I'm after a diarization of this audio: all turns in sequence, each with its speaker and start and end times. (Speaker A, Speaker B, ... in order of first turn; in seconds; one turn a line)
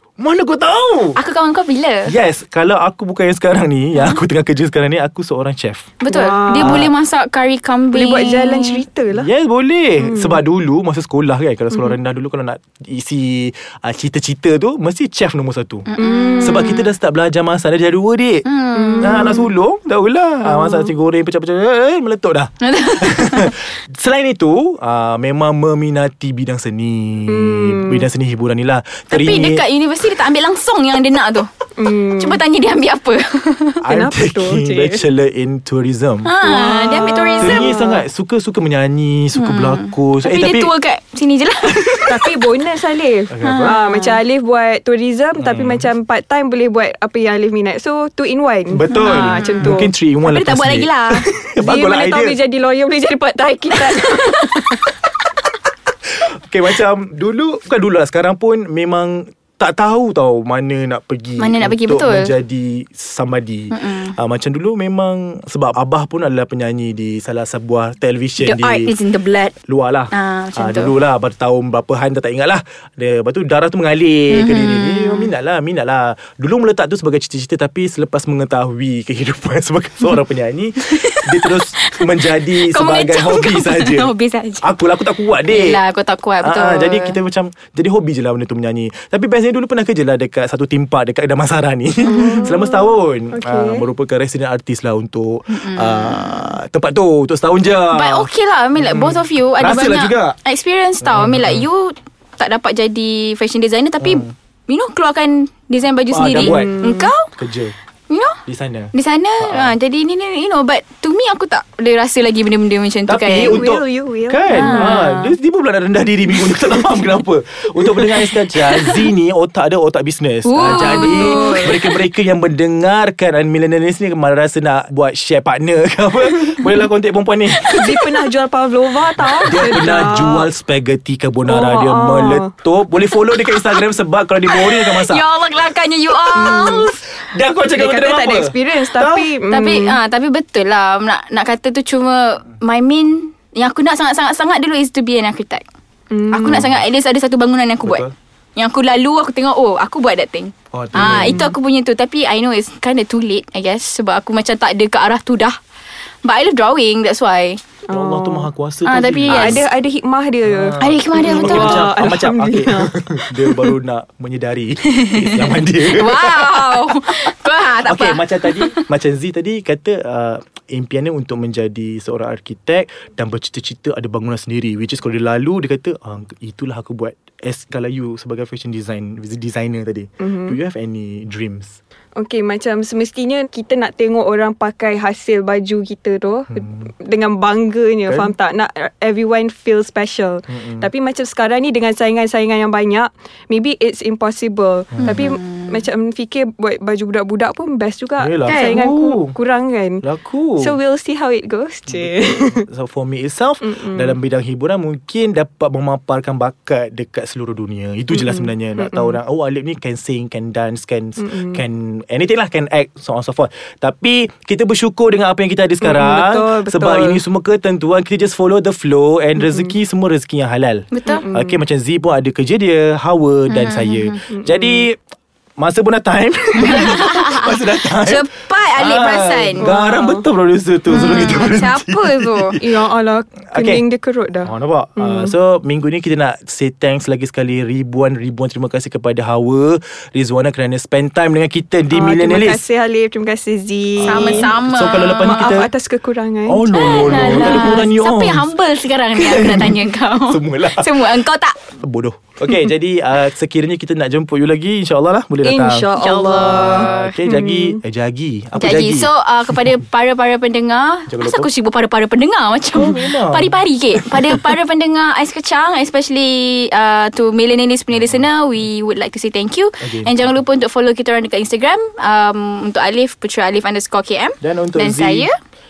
Speaker A: 0.2-1.2
Speaker B: 1.1-2.1
Speaker A: 2.0-5.9
Speaker B: 6.0-8.8
Speaker C: 6.1-6.9
Speaker A: 6.6-6.9
Speaker C: 7.9-9.3
Speaker A: 9.1-15.9
Speaker C: 10.0-10.4
Speaker B: 15.9-16.8
Speaker C: 16.0-16.8
Speaker A: 16.4-18.4
Speaker B: 18.4-19.4
Speaker C: 18.7-19.5
Speaker A: 19.0-29.6
Speaker C: 20.6-20.8
Speaker B: 22.6-23.6
Speaker C: 27.3-28.1
Speaker B: 29.1-31.5
Speaker C: 31.8-32.4
Speaker B: 32.1-33.8
Speaker C: 33.8-35.0
Speaker A: 33.8-36.4
Speaker B: 36.2-37.7
Speaker C: 36.4-38.0
Speaker A: 37.4-40.7
Speaker B: 39.3-42.2
Speaker C: 42.0-49.9
Speaker A: 43.3-43.8
Speaker B: 43.4-44.2
Speaker A: 45.4-45.8
Speaker A: 48.7-52.4
Speaker B: 48.9-51.2
Speaker C: 51.6-54.8
Speaker A: 56.2-68.9
Speaker B: 61.4-62.3
Speaker B: 63.7-64.2
Speaker B: 68.4-69.5
Speaker A: 69.7-84.1
Speaker B: 70.1-70.9
Speaker B: 74.3-75.3
Speaker B: 80.9-82.0
Speaker B: 82.5-84.7
Speaker A: 84.6-85.8
Speaker B: 85.5-87.2
Speaker A: 86.4-100.4
Speaker B: 92.0-92.6
Speaker C: 92.0-92.6
Speaker C: 93.3-93.8
Speaker B: 95.5-96.5
Speaker B: 97.9-107.3
Speaker A: 101.0-101.7
Speaker A: 104.0-104.3
Speaker A: 106.1-107.7
Speaker C: 106.3-107.1
Speaker B: 108.1-108.4
Speaker A: 108.5-109.7
Speaker B: 108.9-113.6
Speaker A: 113.1-127.9
Speaker C: 113.4-115.0
Speaker B: 114.5-115.3
Speaker B: 118.7-119.0
Speaker B: 120.4-121.8
Speaker C: 120.6-121.9
Speaker C: 127.6-130.5
Speaker A: 129.5-135.2
Speaker C: 131.5-132.5
Speaker B: 134.5-137.0
Speaker C: 136.3-136.9
Speaker A: 137.2-139.3
Speaker C: 137.7-140.0
Speaker B: 139.5-145.6
Speaker C: 146.1-146.7
Speaker B: 146.3-155.5
Speaker A: 146.4-146.8
Speaker A: 147.8-148.1
Speaker A: 150.7-151.5
Speaker C: 151.0-151.5
Speaker B: 156.2-157.6
Speaker C: 157.9-158.5
Speaker A: 157.9-159.6
Speaker B: 158.8-159.6
Speaker C: 159.3-162.9
Speaker A: 160.4-181.8
Speaker B: 160.8-162.0
Speaker B: 164.8-168.8
Speaker C: 180.2-180.6
Speaker C: 182.2-200.0
Speaker A: 190.5-190.9
Speaker A: 194.9-195.2
Speaker B: 195.0-195.8
Speaker A: 198.2-199.3
Speaker B: 198.4-198.8
Speaker A: 200.0-200.7
Speaker C: 200.6-202.7
Speaker A: 202.6-225.0
Speaker C: 203.6-204.2
Speaker C: 208.1-209.2
Speaker C: 211.2-211.6
Speaker C: 215.8-217.2
Speaker C: 219.4-219.7
Speaker B: 220.9-221.2
Speaker C: 221.1-221.6
Speaker B: 223.5-224.2
Speaker C: 224.3-224.8
Speaker A: 225.6-232.8
Speaker B: 226.6-229.7
Speaker C: 229.6-230.2
Speaker B: 230.9-232.6
Speaker C: 232.6-235.3
Speaker A: 233.5-233.8
Speaker A: 234.4-242.6
Speaker C: 241.9-244.5
Speaker A: 244.0-245.7
Speaker B: 244.0-245.7
Speaker C: 245.2-247.6
Speaker A: 246.5-248.5
Speaker B: 246.7-251.6
Speaker A: 249.2-250.9
Speaker A: 251.7-259.8
Speaker C: 255.4-257.8
Speaker B: 256.0-257.1
Speaker B: 258.5-275.3
Speaker A: 261.1-261.5
Speaker A: 262.7-264.4
Speaker A: 267.9-268.2
Speaker A: 269.8-270.3
Speaker A: 274.4-275.3